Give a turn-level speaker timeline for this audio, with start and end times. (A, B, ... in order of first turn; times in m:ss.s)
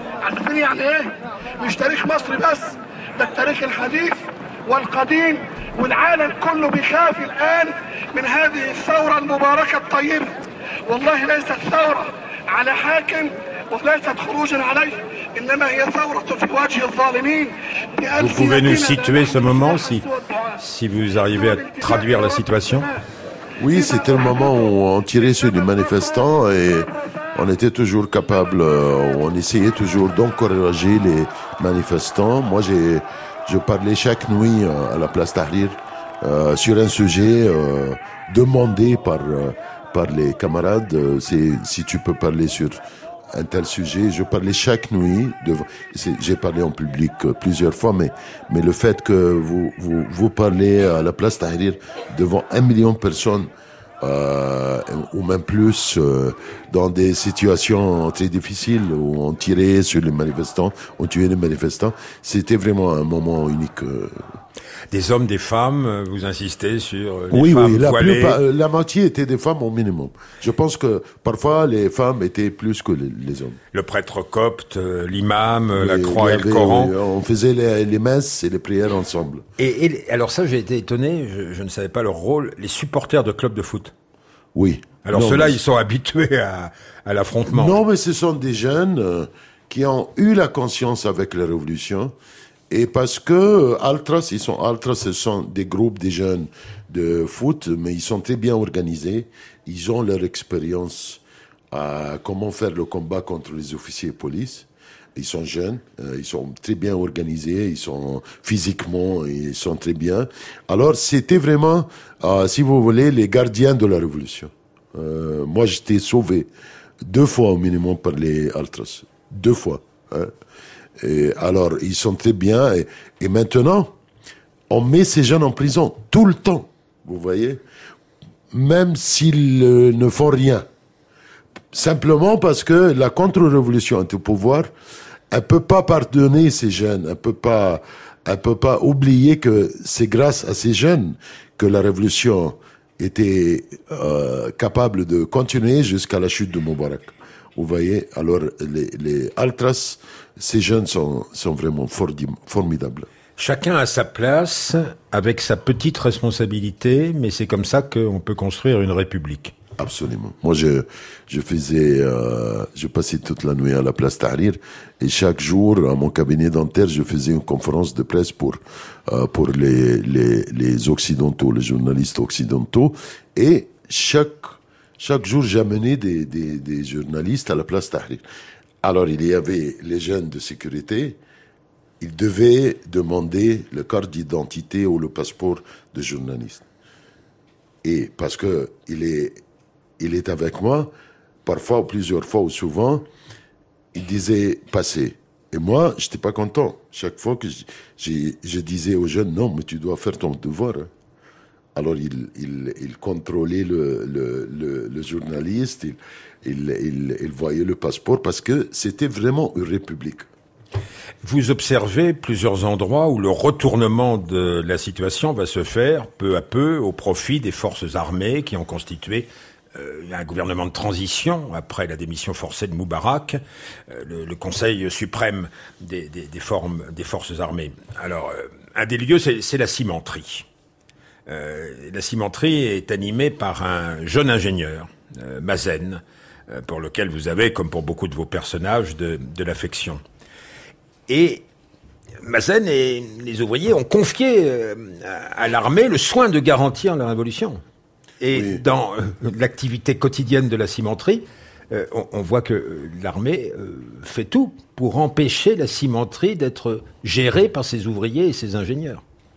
0:00.2-0:20.6 A
0:18.1-0:20.0 B
0:20.6-0:22.9 B
0:21.3-0:22.9 A
0:23.6-0:42.8 C
0:23.7-0:24.6 A
0:43.3-0:53.5 C
0:54.0-1:04.2 C
1:04.9-1:08.4 B
1:07.3-1:13.6 C
1:13.7-1:16.9 B
1:15.7-1:19.4 C
1:19.6-1:23.9 B
1:24.5-1:25.6 C
1:25.0-1:27.8 B
1:27.5-1:32.1 C
1:32.7-1:56.5 C
1:57.0-2:00.3 C
2:01.0-2:03.9 C
2:04.7-2:07.6 C
2:08.5-2:10.6 C
2:11.7-2:14.7 C
2:15.3-2:33.1 C
2:33.4-2:39.5 B
2:39.8-2:58.2 C
2:58.8-3:01.2 C
3:02.0-3:06.6 C
3:07.8-3:09.4 C
3:10.0-3:10.9 C
3:11.4-3:13.1 C
3:13.9-3:20.9 C
3:21.7-3:30.2 C
3:31.2-3:50.4 B
3:51.3-4:00.0 B
4:01.1-4:01.4 B
4:02.2-4:07.6 B
4:08.2-4:19.0 B
4:08.3-4:08.6 C